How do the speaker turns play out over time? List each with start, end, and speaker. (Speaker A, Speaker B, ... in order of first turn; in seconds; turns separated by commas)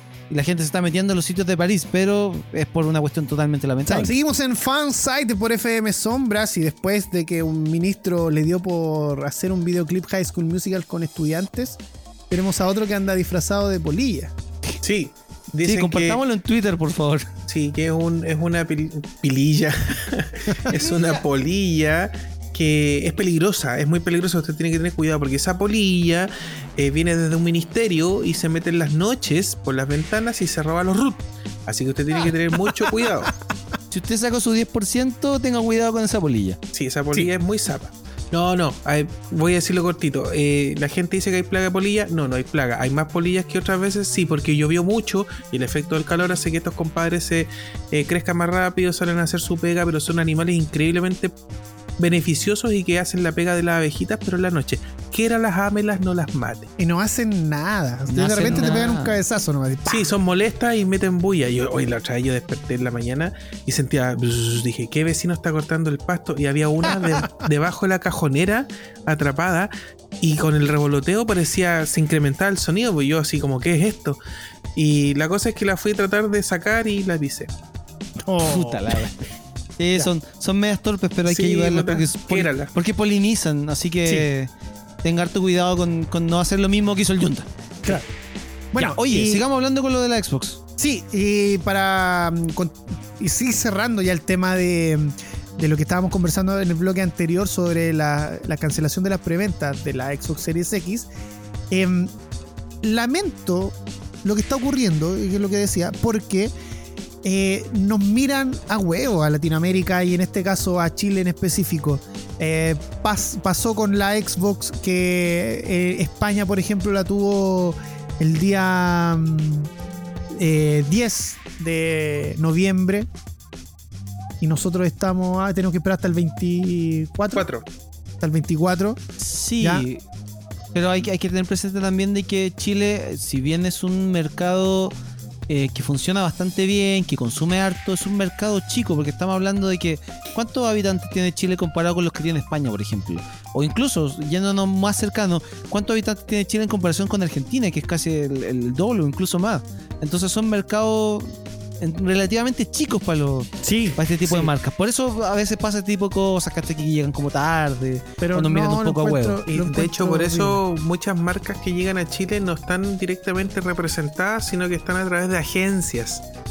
Speaker A: 0.3-4.1, Speaker B: 3.9-11.8, Speaker B: 12.3-14.3, Speaker C: 14.8-16.2, Speaker A: 15.6-17.3, Speaker C: 17.5-33.3, Speaker B: 32.6-32.9, Speaker A: 33.9-36.6, Speaker C: 36.7-51.3, Speaker C: 52.0-56.7, Speaker B: 56.8-60.1, Speaker A: 58.1-59.2, Speaker C: 59.9-74.2, Speaker B: 66.8-67.5, Speaker C: 74.8-77.5, Speaker B: 78.2-79.1, Speaker A: 78.4-79.1, Speaker A: 79.8-84.5, Speaker C: 81.3-82.7, Speaker A: 85.0-88.0, Speaker B: 88.7-89.4, Speaker A: 88.8-90.6, Speaker B: 90.8-101.1, Speaker B: 101.7-102.1, Speaker B: 102.8-106.5, Speaker B: 107.2-119.7, Speaker B: 120.3-123.1, Speaker B: 124.4-127.5, Speaker C: 127.3-127.7, Speaker B: 128.2-129.0, Speaker A: 129.2-130.0, Speaker B: 129.6-129.9, Speaker A: 130.8-134.9, Speaker A: 135.5-159.4, Speaker B: 153.6-154.5, Speaker B: 158.2-160.6, Speaker C: 159.5-166.2